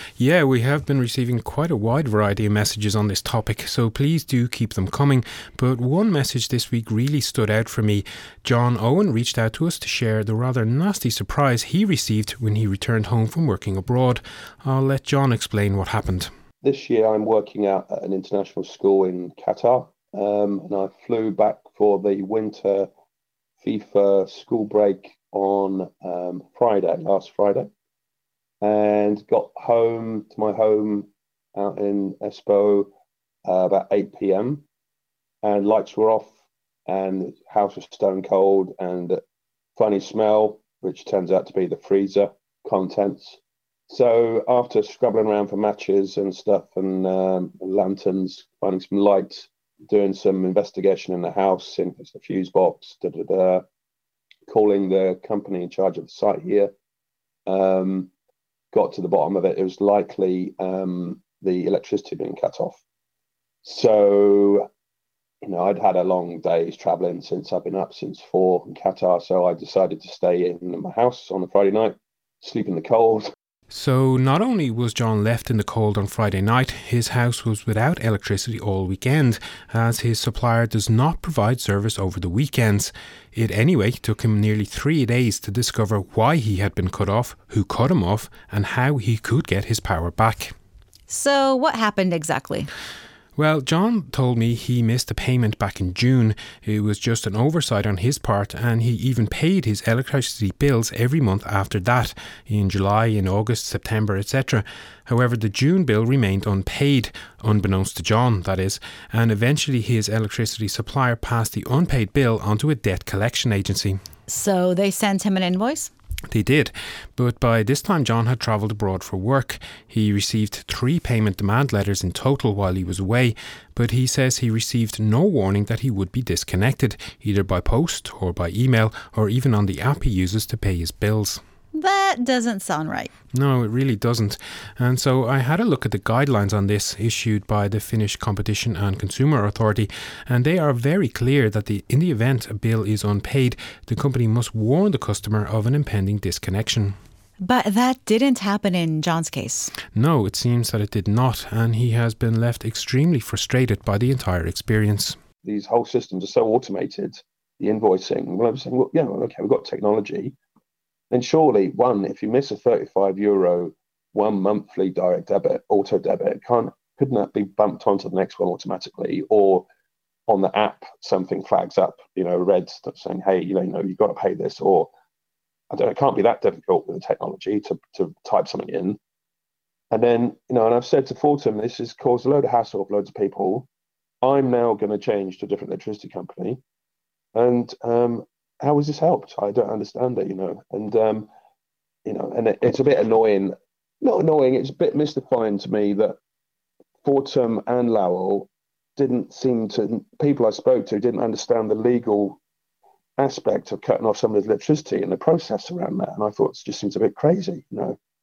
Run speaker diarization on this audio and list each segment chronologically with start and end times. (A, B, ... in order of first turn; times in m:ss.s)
0:00.2-0:16.3 A
0:16.6-0:22.9 B
0:23.6-0:27.7 B
0:28.6-0:32.9 B
0:33.4-0:34.6 B
0:35.4-0:36.3 B
0:36.9-0:39.2 B
0:39.8-0:53.7 B
0:54.5-0:56.7 B
0:57.5-0:58.1 B
0:58.7-1:02.8 B
1:03.6-1:04.7 B
1:05.4-1:13.3 B
1:13.7-1:30.5 A
1:31.1-1:32.7 C
1:33.4-1:54.0 A
1:54.3-1:55.9 C
1:56.3-2:11.4 A
2:11.7-2:13.1 C
2:13.3-2:27.0 A
2:27.4-2:29.7 C
2:29.9-2:35.2 A
2:35.4-2:40.4 B
2:41.1-2:49.7 B
2:50.3-2:54.9 B
2:55.7-2:59.0 B
2:59.9-3:03.7 B
3:04.2-3:06.6 B
3:07.4-3:11.3 B
3:12.0-3:16.2 B
3:17.0-3:22.4 B
3:23.2-3:28.0 B